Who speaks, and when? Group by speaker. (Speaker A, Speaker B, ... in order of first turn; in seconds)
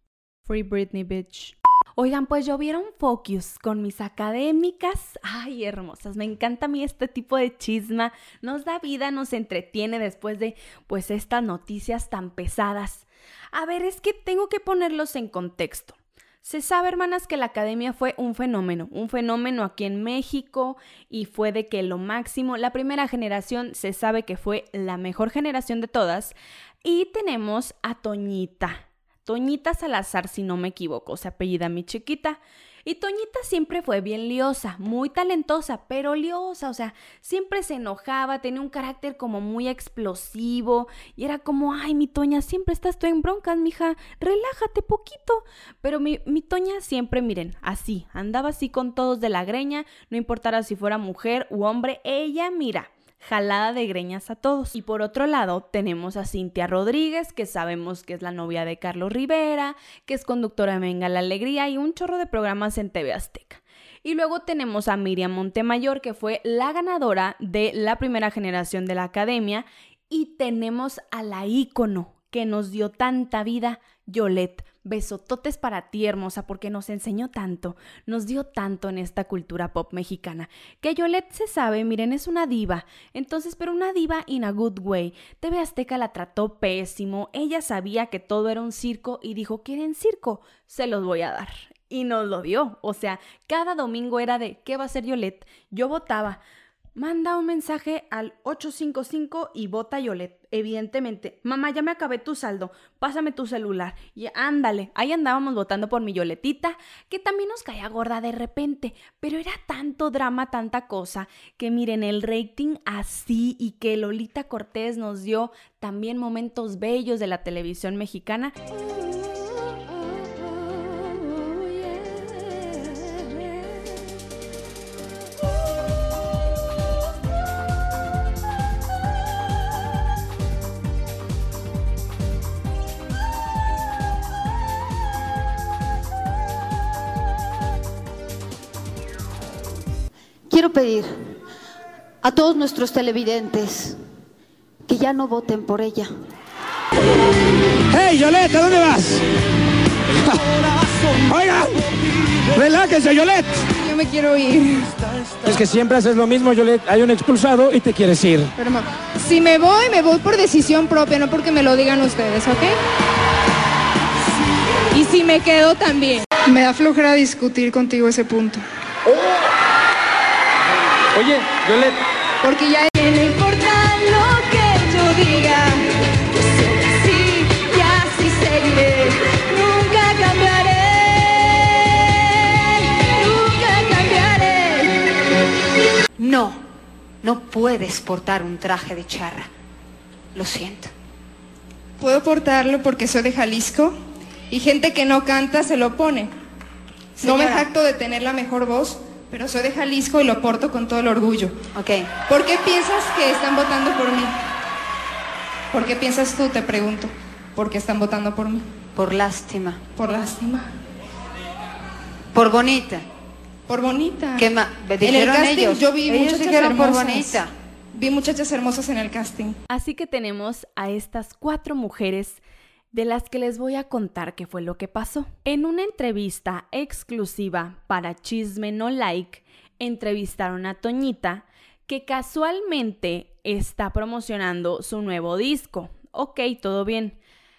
Speaker A: 0.5-96.4, 97.0-118.6, 219.7-222.4, 222.9-237.2
Speaker B: 140.5-141.3, 142.2-144.0, 144.9-146.1, 186.2-186.6, 187.2-189.5, 190.3-190.9, 197.2-197.7, 201.8-202.1, 209.0-209.8, 212.3-213.1, 214.4-217.5
Speaker C: 147.9-149.2, 150.1-150.4, 151.2-151.9, 152.5-153.6, 155.4-158.5, 171.1-172.0
Speaker D: 153.7-154.9, 158.6-162.8, 164.9-168.6, 172.4-185.0, 192.0-194.0, 194.5-196.3, 197.2-201.6, 202.3-204.3, 205.7-208.7, 210.0-210.7, 213.7-214.5, 215.0-217.4, 217.9-219.6